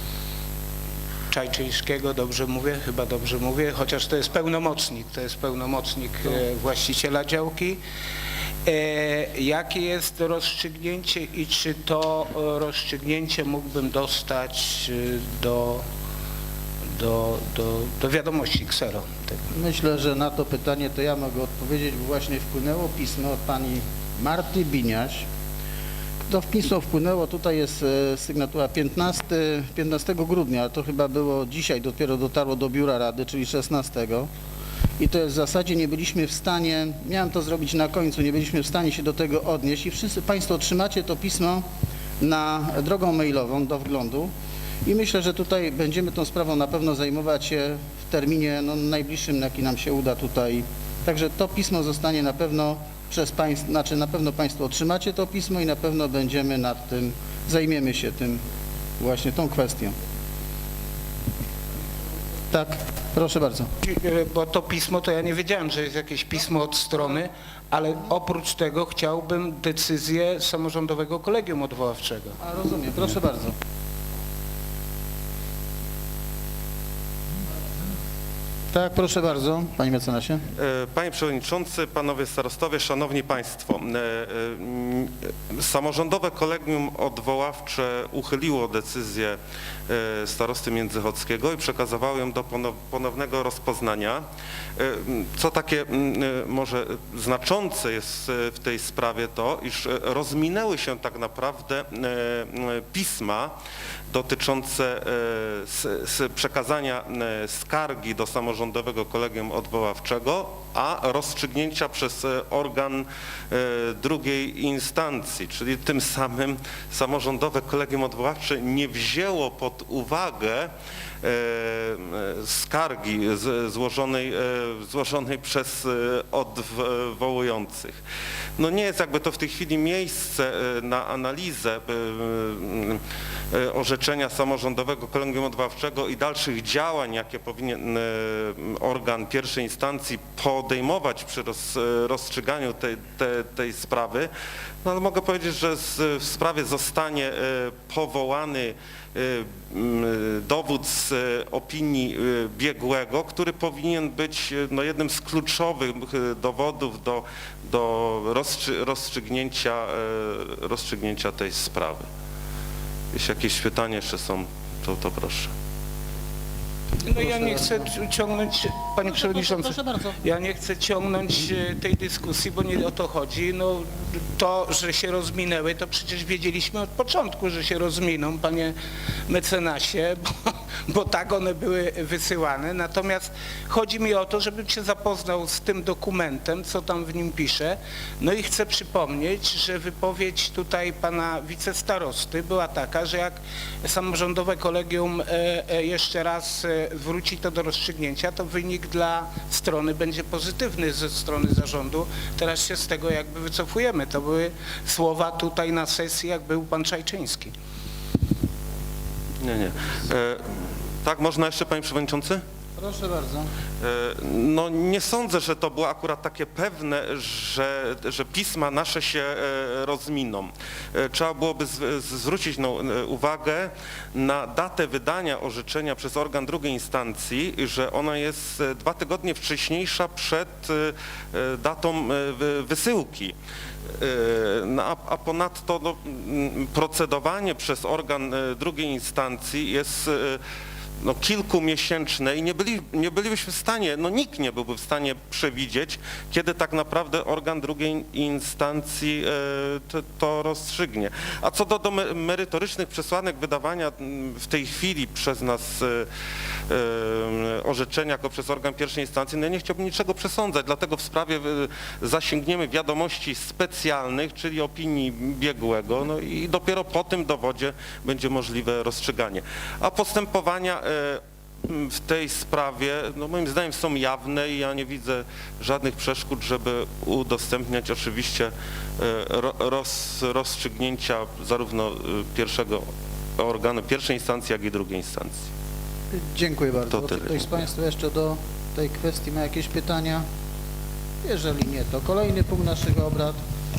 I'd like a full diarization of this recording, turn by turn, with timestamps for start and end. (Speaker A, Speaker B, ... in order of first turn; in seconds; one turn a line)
Speaker A: 1.3-7.8
Speaker A: 8.7-15.8
Speaker A: 16.9-19.4
Speaker B: 19.5-25.3
Speaker B: 26.3-34.3
Speaker B: 35.0-41.6
Speaker B: 42.2-44.3
Speaker B: 44.8-58.4
Speaker B: 59.0-59.9
Speaker B: 62.5-63.7
Speaker A: 63.8-72.4
Speaker B: 72.4-73.5
Speaker B: 78.7-80.4
Speaker C: 80.6-94.2
Speaker C: 94.8-103.5
Speaker C: 104.1-120.7
Speaker C: 121.2-128.0
Speaker C: 128.6-133.0
Speaker C: 133.5-144.3
Speaker C: 144.8-162.1
Speaker C: 163.1-165.5
Speaker A: 167.0-178.7
Speaker B: 167.2-167.9
Speaker B: 169.0-170.2
Speaker A: 179.3-207.5
Speaker C: 209.4-212.4
Speaker B: 212.8-213.5
Speaker C: 213.8-233.3
Speaker C: 234.0-240.4
Speaker C: 241.0-256.1
Speaker C: 256.7-282.8
Speaker C: 283.4-285.5
Speaker B: 286.1-290.2
Speaker C: 286.9-287.4
Speaker B: 291.2-293.4